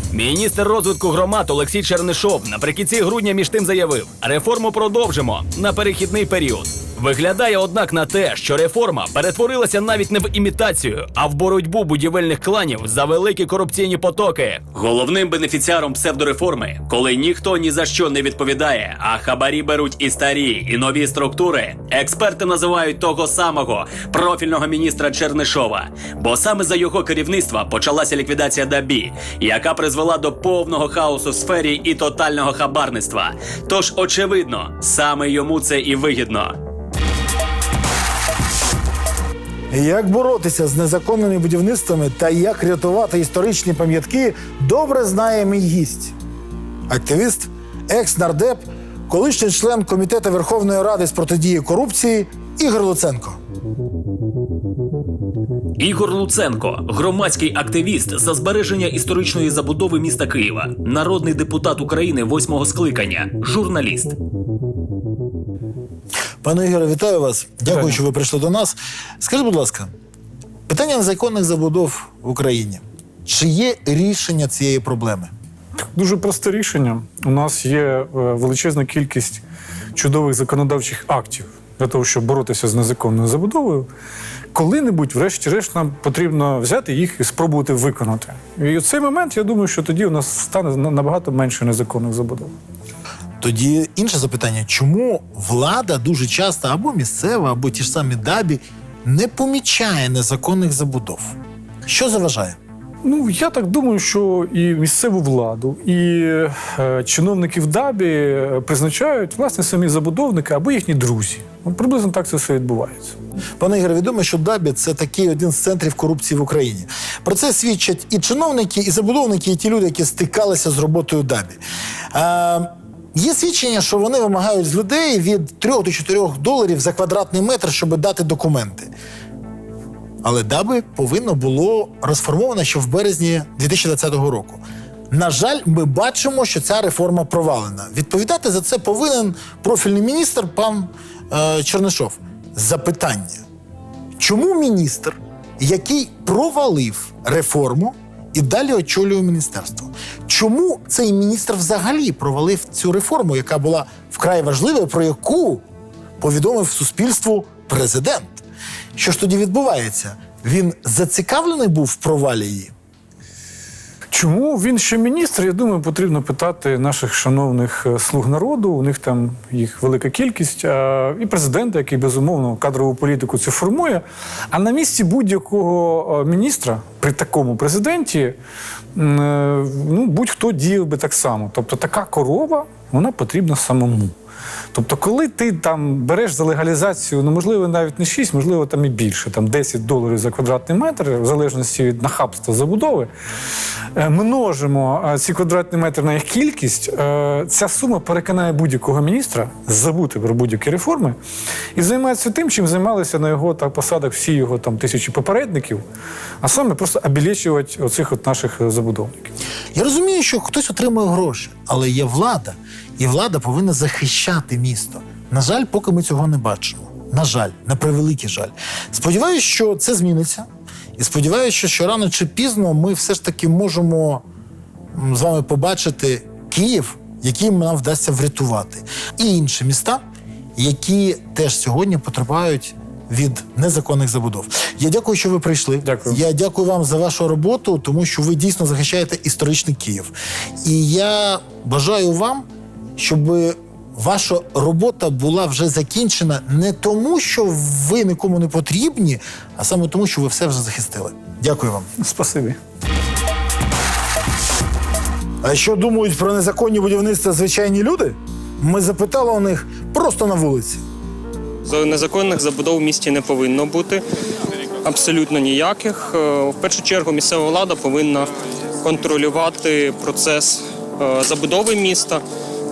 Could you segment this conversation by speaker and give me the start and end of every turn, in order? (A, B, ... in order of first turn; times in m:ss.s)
0:00.1-0:36.6 A
0:39.7-0:46.1 B
0:46.9-0:53.4 B
0:55.8-1:04.1 A
1:06.4-1:09.9 B
1:07.7-1:08.0 C
1:10.7-1:15.3 B
1:15.9-1:19.4 C
1:19.9-1:23.9 C
1:24.5-1:32.5 C
1:33.4-1:42.6 B
1:43.0-1:53.1 C
1:53.6-2:01.6 B
2:02.1-2:08.9 B
2:10.2-2:23.4 B
2:24.2-2:35.6 B
2:36.2-2:38.4 B
2:39.0-2:42.7 B
2:44.1-2:58.4 C
2:59.0-3:04.1 C
3:04.7-3:13.1 C
3:14.0-3:21.2 C
3:21.7-3:25.8 C
3:26.4-3:29.3 C
3:29.8-3:44.2 B
3:45.0-3:50.0 B
3:50.6-4:11.9 B
3:55.8-3:56.2 C
4:12.0-4:12.6 C
4:15.4-4:20.8 B
4:21.6-4:24.0 D
4:24.8-4:32.2 D